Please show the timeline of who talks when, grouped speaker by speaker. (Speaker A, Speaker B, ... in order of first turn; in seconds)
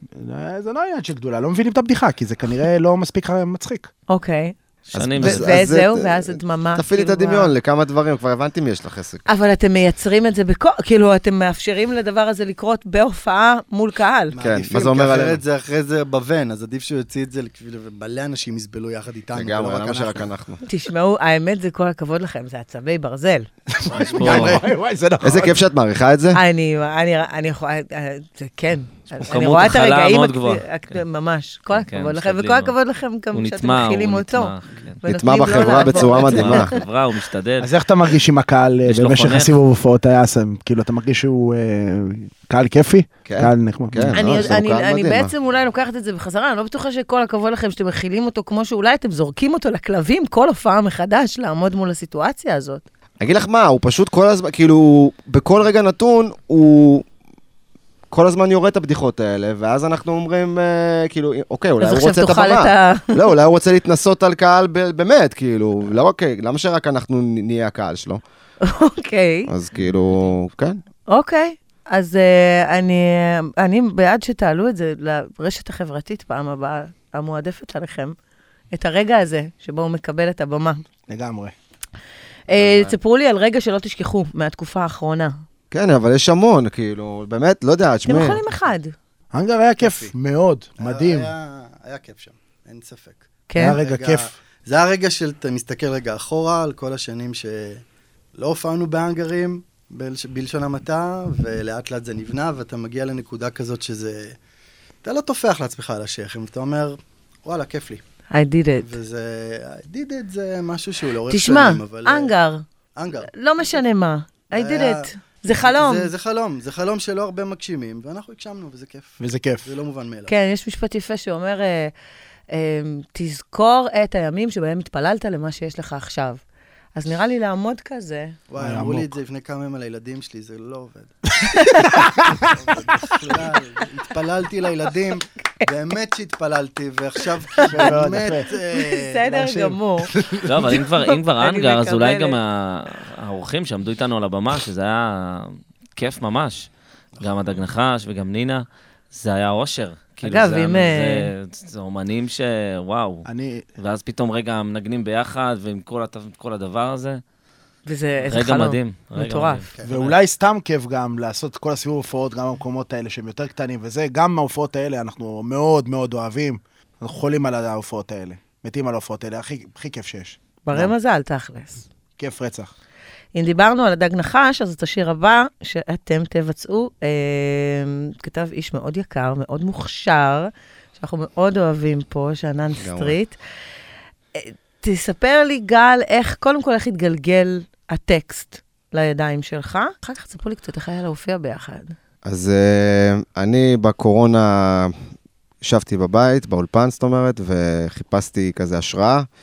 Speaker A: 0.1-3.9, 23.8-25.6, 37.6-44.2, 81.1-81.5, 89.3-91.3, 93.6-94.3, 119.2-119.7, 128.6-129.1, 131.7-132.5, 137.6-138.5, 153.2-153.6, 159.8-170.9, 172.2-172.7
Speaker B: 4.1-4.5, 5.2-7.5, 9.3-14.4, 20.7-23.5, 26.3-34.5, 35.0-36.8, 44.1-52.8, 61.8-63.1, 68.6-69.5, 71.1-78.1, 78.7-80.8, 82.5-85.4, 88.0-88.9, 93.5-93.8, 108.3-108.9, 111.3-112.6, 113.2-116.1, 120.3-121.9, 122.5-126.4, 127.0-128.3, 131.5-131.9, 137.6-137.9, 138.5-140.1, 140.7-142.4, 150.2-151.3, 157.8-159.7, 170.6-171.8, 173.3-183.4, 184.3-191.9
Speaker C: 4.9-5.5, 23.9-24.6, 29.2-30.6, 31.7-32.7, 33.3-35.0, 35.8-37.7, 38.9-39.6, 69.7-70.3, 140.4-157.2, 158.2-160.1
Speaker D: 4.9-9.2, 14.4-15.4, 19.3-20.6, 25.2-26.4, 35.0-36.8, 43.2-45.3, 53.2-57.0, 58.1-68.2, 69.5-70.8, 82.6-82.9, 85.7-88.4, 182.8-183.2, 192.2-194.9, 195.6-199.3
Speaker E: 14.3-20.3, 24.0-24.7, 89.8-90.1, 90.8-97.8, 98.3-104.3, 105.0-108.0, 108.8-112.3, 113.0-113.3, 114.5-120.3, 128.5-131.1, 132.3-140.4, 159.8-160.1